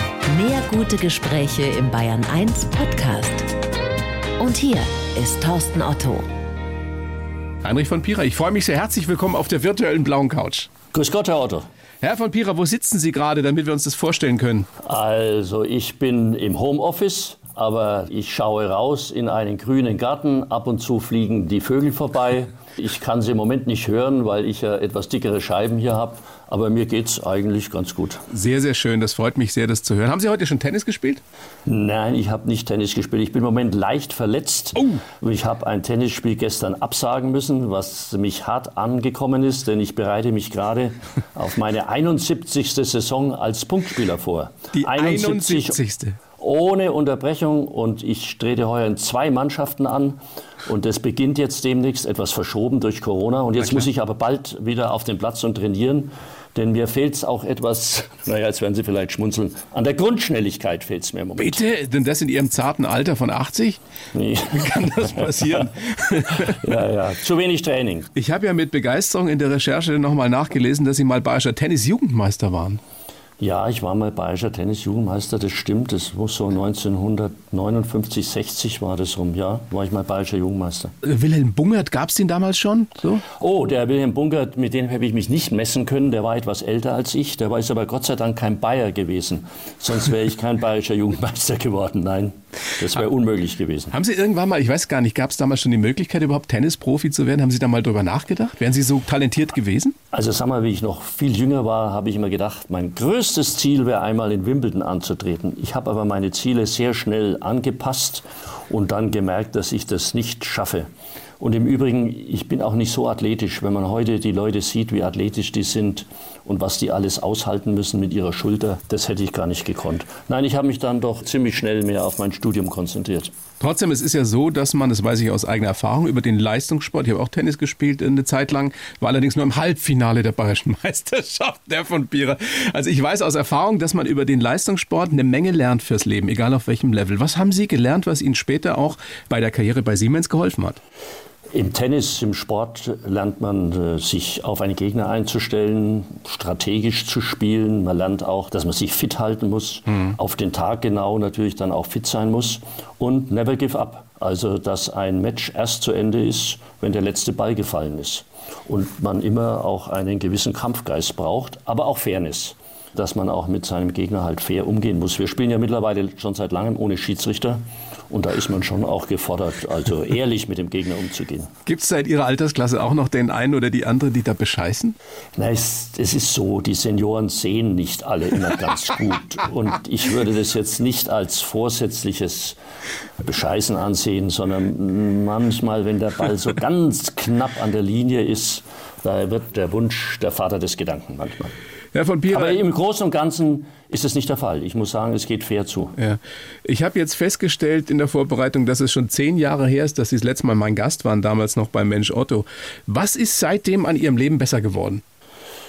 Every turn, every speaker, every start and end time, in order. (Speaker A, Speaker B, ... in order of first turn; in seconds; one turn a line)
Speaker A: 0.3-3.5
Speaker A: 4.4-6.3
Speaker B: 7.6-10.7
Speaker C: 10.9-11.7
Speaker B: 12.0-14.7
Speaker C: 14.8-28.3
Speaker B: 28.3-31.2
Speaker C: 31.7-45.8
Speaker B: 44.7-46.2
Speaker C: 46.4-61.6
Speaker B: 61.4-63.8
Speaker C: 64.1-65.6
Speaker B: 64.5-66.7
Speaker C: 66.3-68.1
Speaker B: 68.2-72.8
Speaker C: 73.4-80.9
Speaker B: 81.0-83.2
Speaker C: 83.3-93.9
Speaker B: 93.9-100.0
Speaker C: 100.1-110.9
Speaker C: 111.4-123.3
Speaker B: 123.6-140.8
Speaker C: 141.5-171.5
Speaker B: 171.7-175.0
Speaker C: 175.4-182.6
Speaker C: 183.2-191.6
Speaker B: 191.9-192.6
Speaker C: 192.3-196.0
Speaker B: 196.0-205.0